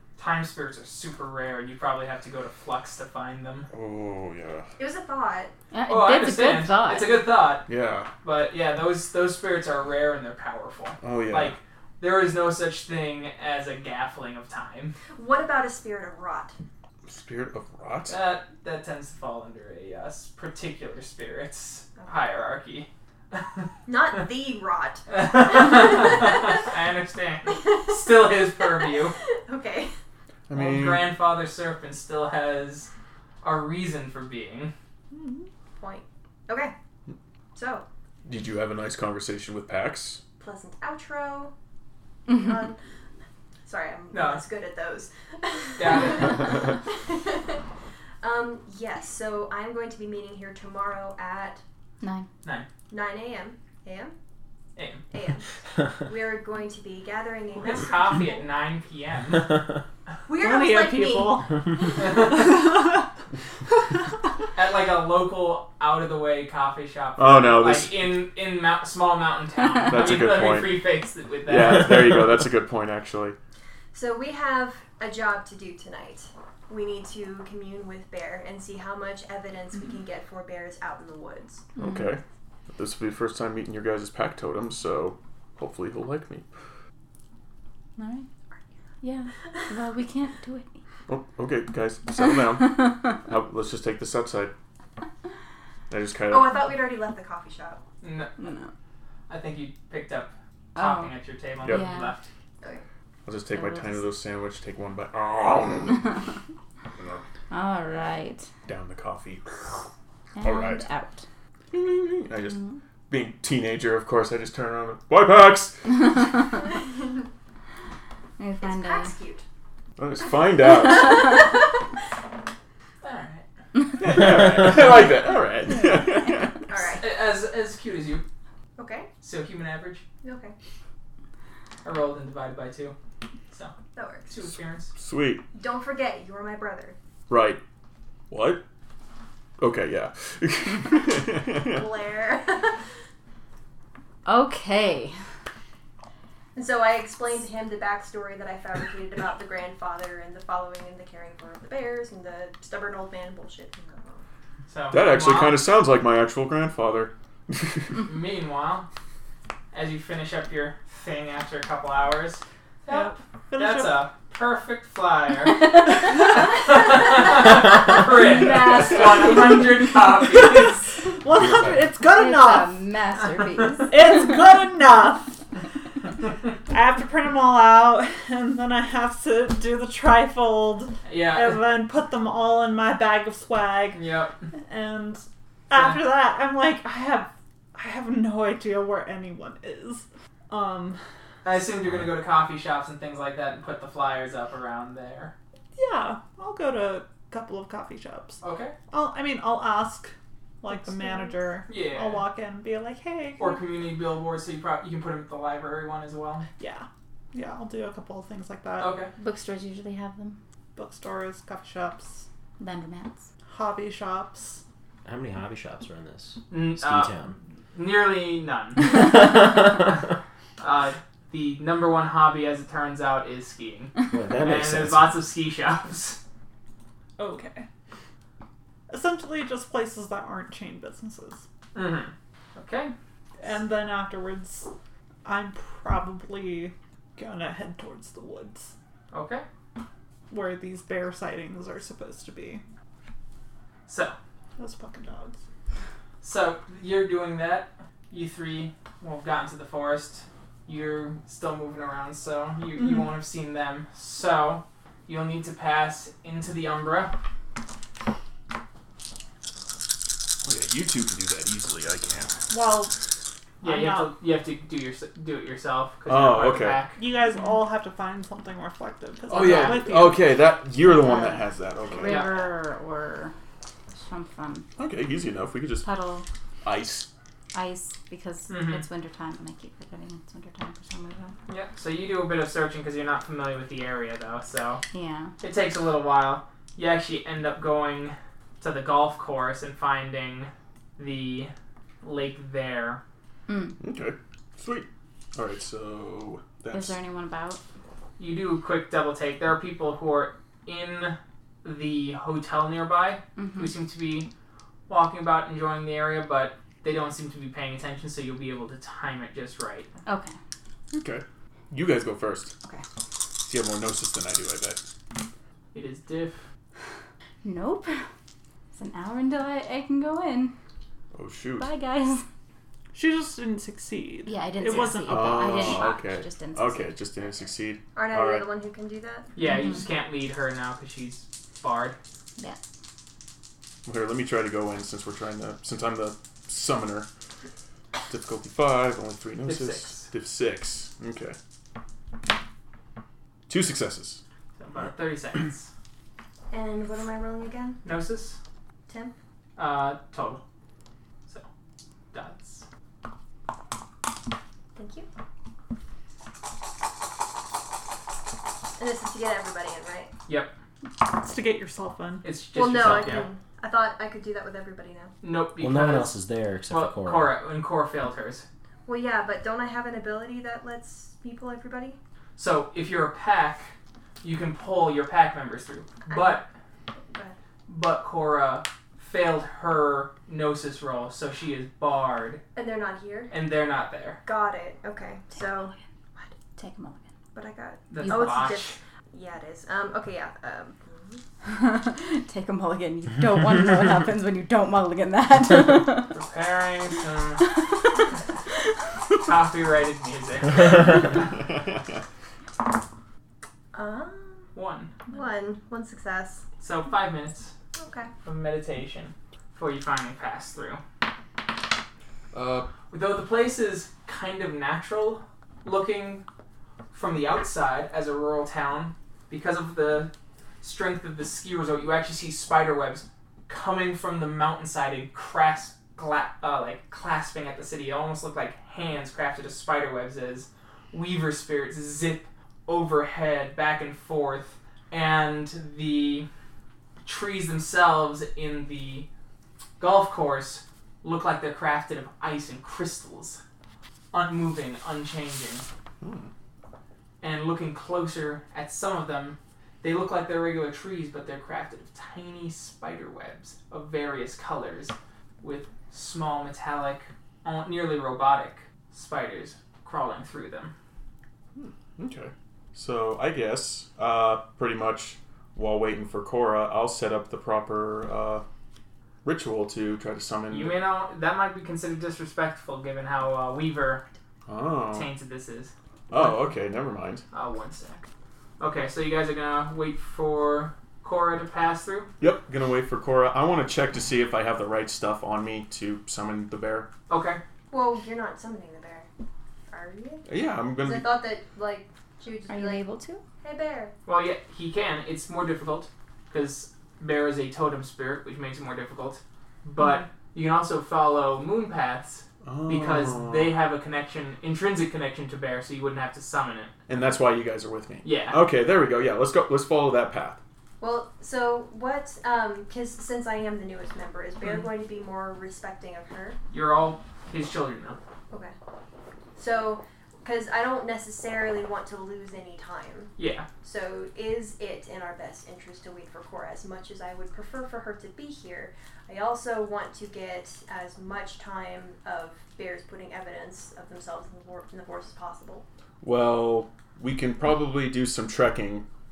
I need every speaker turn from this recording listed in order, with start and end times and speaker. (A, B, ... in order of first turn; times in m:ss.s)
0:00.2-0:03.7 A
0:03.7-0:04.7 B
0:04.8-0:05.5 C
0:05.7-0:07.2 D
0:05.9-0:07.6 A
0:07.6-0:08.1 B
0:08.2-0:15.0 A
0:11.0-0:11.6 B
0:15.1-0:16.5 C
0:17.1-0:18.2 B
0:18.1-0:23.7 A
0:23.8-0:26.3 C
0:25.1-0:29.1 A
0:29.2-0:29.9 C
0:30.5-0:31.1 B
0:30.5-0:32.9 A
0:33.4-0:34.7 A
0:35.8-0:36.7 C
0:37.5-0:37.8 C
0:38.2-0:40.2 B
0:40.4-0:41.5 C
0:42.3-0:42.8 C
0:43.6-0:47.6 C
0:44.1-0:44.4 A
0:45.8-0:46.5 A
0:48.2-0:51.6 C
0:52.0-0:52.3 D
0:52.9-0:54.1 C
0:54.8-0:55.0 A
0:55.1-0:58.4 C
0:57.6-0:59.6 A
1:00.3-1:01.4 C
1:00.4-1:03.1 E
1:02.0-1:02.7 A
1:04.6-1:12.0 A
1:07.2-1:08.1 B
1:09.8-1:10.8 B
1:11.5-1:13.4 B
1:13.9-1:21.6 C
1:21.8-1:22.1 D
1:21.8-1:22.2 B
1:22.7-1:26.4 B
1:28.0-1:28.3 D
1:29.0-1:30.8 D
1:31.1-1:34.5 B
1:32.3-1:33.0 D
1:35.9-1:36.7 B
1:36.3-1:37.8 C
1:38.0-1:38.4 A
1:38.4-1:38.7 D
1:39.3-1:42.3 A
1:40.7-1:42.1 D
1:43.2-1:46.2 B
1:43.5-1:44.1 D
1:47.0-1:47.2 B
1:47.5-1:48.5 D
1:48.7-1:49.4 B
1:50.3-1:51.2 D
1:50.4-1:50.8 B
1:51.7-1:56.3 B
1:52.5-1:52.8 D
1:58.4-1:59.1 D
1:58.6-1:59.4 C
2:00.0-2:01.3 B
2:00.7-2:01.3 C
2:03.0-2:03.4 A
2:04.0-2:06.6 B
2:05.8-2:06.5 D
2:06.7-2:07.1 C
2:07.0-2:08.2 A
2:08.8-2:09.1 C
2:09.2-2:10.0 A
2:10.2-2:10.5 C
2:11.8-2:12.9 A
2:13.9-2:14.3 C
2:14.3-2:14.9 A
2:14.9-2:15.4 B
2:15.5-2:17.0 C
2:17.3-2:17.6 B
2:18.3-2:18.6 B
2:19.6-2:21.9 B
2:21.6-2:22.8 C
2:24.2-2:25.1 D
2:26.5-2:34.2 C
2:34.7-2:35.6 A
2:34.9-2:38.0 B
2:38.0-2:38.9 A
2:39.7-2:51.0 A
2:42.9-2:44.0 E
2:45.6-2:46.9 D
2:48.2-2:49.6 D
2:51.1-2:52.8 E
2:52.0-2:54.3 D
2:53.9-2:55.4 E
2:56.7-3:04.0 E
3:01.0-3:01.6 A
3:03.9-3:04.4 A
3:04.6-3:11.0 E
3:05.7-3:06.0 A
3:11.4-3:15.3 A
3:15.7-3:23.6 E
3:18.4-3:18.7 A
3:21.7-3:22.2 A
3:23.4-3:26.4 A
3:26.6-3:29.0 E
3:28.8-3:29.1 A
3:29.1-3:30.4 D
3:30.8-3:32.2 E
3:32.6-3:33.3 D
3:33.5-3:34.6 E
3:35.0-3:37.4 F
3:36.5-3:39.2 A
3:40.6-3:46.2 A
3:44.1-3:45.1 F
3:47.2-3:47.7 E
3:48.9-3:51.4 E
3:51.7-3:52.9 A
3:53.4-3:54.7 E
3:55.2-3:58.7 E
3:59.1-3:59.4 A
4:00.3-4:02.6 E
4:03.9-4:04.2 A
4:04.6-4:05.4 E
4:06.2-4:17.1 A
4:20.4-4:22.4 B
4:22.5-4:22.9 E
4:23.6-4:27.0 A
4:23.6-4:24.1 E
4:26.0-4:26.8 B
4:27.0-4:30.3 E
4:27.3-4:27.6 D
4:29.3-4:32.3 B
4:29.3-4:29.8 A
4:30.7-4:33.3 D
4:32.0-4:32.4 A
4:33.9-4:34.7 D
4:34.8-4:35.9 B
4:35.8-4:36.2 D
4:36.6-4:37.1 B
4:37.5-4:41.4 D
4:38.5-4:38.8 A
4:41.5-4:44.8 A
4:44.9-4:45.3 D
4:45.4-4:53.0 A
4:53.5-4:53.8 D
4:53.8-4:57.0 B
4:56.7-4:57.6 D
4:58.2-5:04.3 A
5:03.4-5:03.7 D
5:04.9-5:09.9 A
5:10.0-5:10.3 D
5:10.9-5:12.5 B
5:13.4-5:14.8 B
5:15.7-5:16.4 A
5:17.4-5:18.0 D
5:18.7-5:20.5 D
5:21.1-5:21.7 B
5:21.6-5:22.2 D
5:22.9-5:25.8 E
5:24.2-5:27.0 D
5:25.1-5:28.5 B
5:27.9-5:29.3 C
5:29.4-5:32.0 A
5:29.4-5:29.8 D
5:33.8-5:37.1 B
5:38.1-5:41.4 B
5:39.4-5:40.1 A
5:43.5-5:44.2 B
5:44.6-5:45.7 A
5:46.5-5:47.8 C
5:47.8-5:48.4 A
5:48.9-5:49.1 C
5:49.6-5:50.4 A
5:52.1-5:52.7 A
5:54.7-5:55.1 C
5:58.8-6:00.1 C
6:00.3-6:00.5 A
6:01.0-6:02.3 E
6:02.2-6:03.3 A
6:02.5-6:05.1 C
6:05.2-6:08.4 A
6:05.6-6:07.3 F
6:08.8-6:12.0 C
6:12.4-6:16.5 A
6:16.1-6:16.4 C
6:17.1-6:17.4 C
6:17.7-6:22.4 A
6:22.5-6:23.3 C
6:23.3-6:24.2 A
6:24.2-6:26.3 C
6:26.6-6:27.0 D
6:27.3-6:31.2 C
6:27.9-6:28.8 A
6:28.0-6:28.6 D
6:31.4-6:36.2 D
6:36.1-6:37.5 A
6:37.4-6:38.1 D
6:39.2-6:41.2 A
6:43.7-6:44.5 C
6:44.5-6:44.9 A
6:45.1-6:46.4 C
6:46.6-6:47.5 A
6:47.8-6:48.1 C
6:48.2-6:50.8 A
6:52.3-6:52.7 B
6:52.9-6:56.2 A
6:56.9-7:00.1 A
7:00.6-7:16.3 A
7:17.0-7:19.1 A
7:19.8-7:23.4 A
7:24.1-7:25.6 A
7:26.0-7:26.3 B
7:27.2-7:40.7 A
7:41.5-7:48.4 B
7:49.2-7:50.8 B
7:50.5-7:54.0 A
7:54.5-7:55.1 B
7:54.9-7:56.5 A
7:56.1-7:57.2 B
7:57.3-7:58.0 A
7:58.6-8:02.1 A
8:02.2-8:06.9 B
8:07.1-8:07.4 A
8:07.7-8:09.1 C
8:09.7-8:10.3 C
8:10.2-8:11.2 B
8:10.8-8:12.8 C
8:12.5-8:13.2 D
8:13.4-8:13.9 C
8:14.0-8:26.7 A
8:22.4-8:23.6 B
8:26.9-8:30.4 B
8:28.0-8:28.4 A
8:30.8-8:36.4 C
8:34.4-8:34.7 A
8:36.5-8:38.0 A
8:39.4-8:55.6 C
8:43.2-8:43.5 A
8:56.0-8:58.8 B